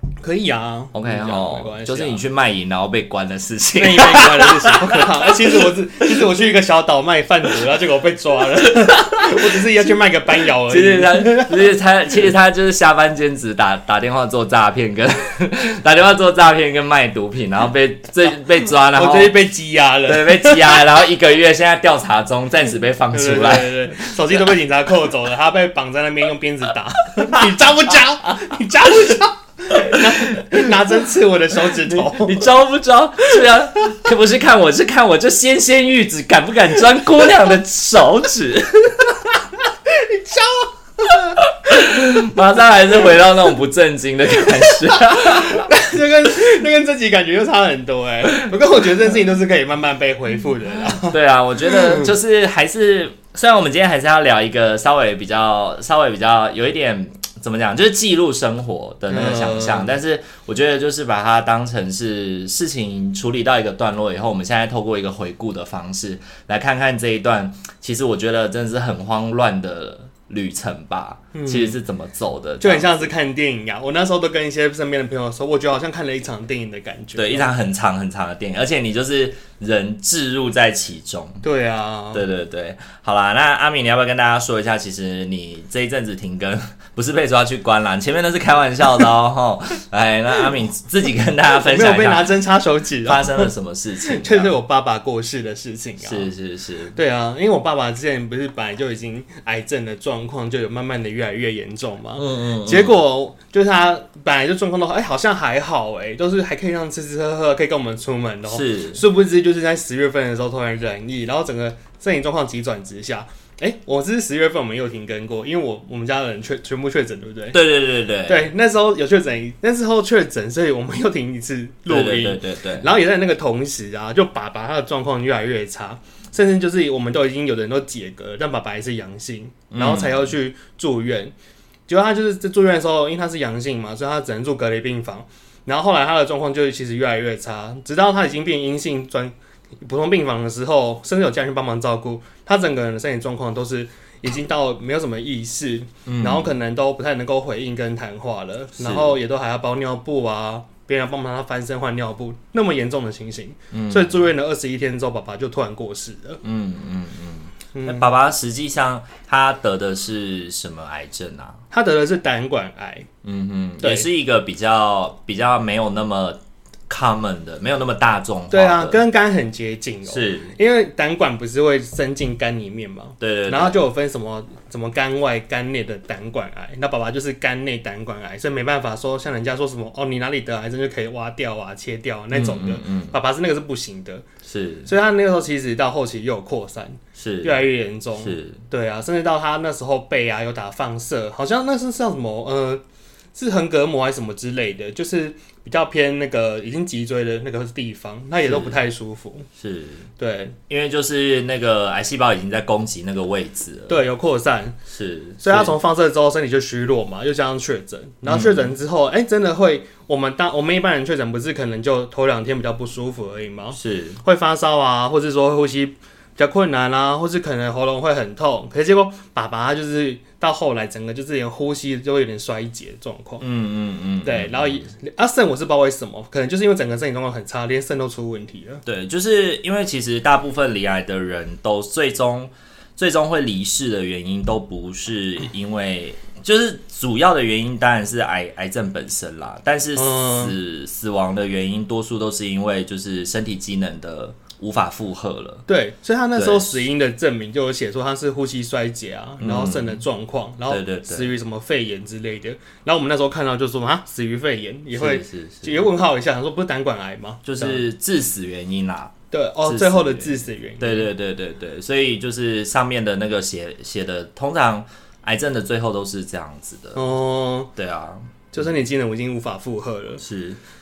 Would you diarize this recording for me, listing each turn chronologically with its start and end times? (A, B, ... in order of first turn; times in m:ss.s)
0:00.2-0:02.2 A
0:00.9-0:05.6 B
0:03.8-0:12.2 A
0:08.9-0:09.6 B
0:10.6-0:19.4 B
0:18.9-0:20.9 A
0:20.0-0:24.1 B
0:23.1-0:32.5 A
0:29.7-0:30.7 B
0:31.7-0:39.2 B
0:39.9-0:41.4 A
0:41.4-0:45.7 B
0:44.7-0:52.1 A
0:51.0-1:13.1 B
0:59.1-0:59.9 A
1:11.3-1:11.8 A
1:12.6-1:17.5 A
1:17.2-1:21.4 B
1:21.4-1:22.2 A
1:22.1-1:32.4 B
1:31.5-1:33.5 A
1:33.0-1:34.5 B
1:34.0-1:36.3 A
1:36.0-1:37.0 B
1:37.0-1:57.6 A
1:42.2-1:43.0 B
1:48.5-1:49.0 B
1:57.5-1:58.5 B
1:58.2-2:11.3 A
2:01.9-2:02.9 B
2:09.7-2:10.2 B
2:11.9-2:36.4 A
2:26.1-2:26.5 B
2:28.8-2:29.2 B
2:33.7-2:34.2 B
2:36.4-2:41.6 B
2:37.7-2:38.1 A
2:41.7-2:43.1 A
2:43.2-2:46.4 B
2:43.8-2:44.1 A
2:46.9-2:49.0 B
2:48.5-3:04.3 A
2:50.1-2:50.6 B
2:53.2-2:53.8 B
3:02.3-3:03.2 B
3:04.4-3:04.9 B
3:04.9-3:12.8 A
3:07.2-3:08.6 B
3:13.4-3:19.5 A
3:18.4-3:18.8 B
3:19.6-3:20.1 B
3:20.2-3:20.6 A
3:20.7-3:24.0 B
3:23.9-3:24.8 A
3:24.9-3:25.7 B
3:25.4-3:43.4 A
3:28.3-3:28.7 B
3:33.7-3:34.2 B
3:43.4-3:44.9 B
3:44.2-3:48.8 A
3:48.9-4:05.7 B
4:00.0-4:00.6 A
4:05.7-4:17.8 A
4:06.4-4:06.8 B
4:09.4-4:10.0 B
4:10.7-4:11.3 B
4:14.9-4:15.9 B
4:17.4-4:27.1 B
4:19.3-4:21.1 A
4:27.0-4:27.7 A
4:27.8-4:28.5 B
4:28.5-4:30.2 A
4:30.2-4:30.6 B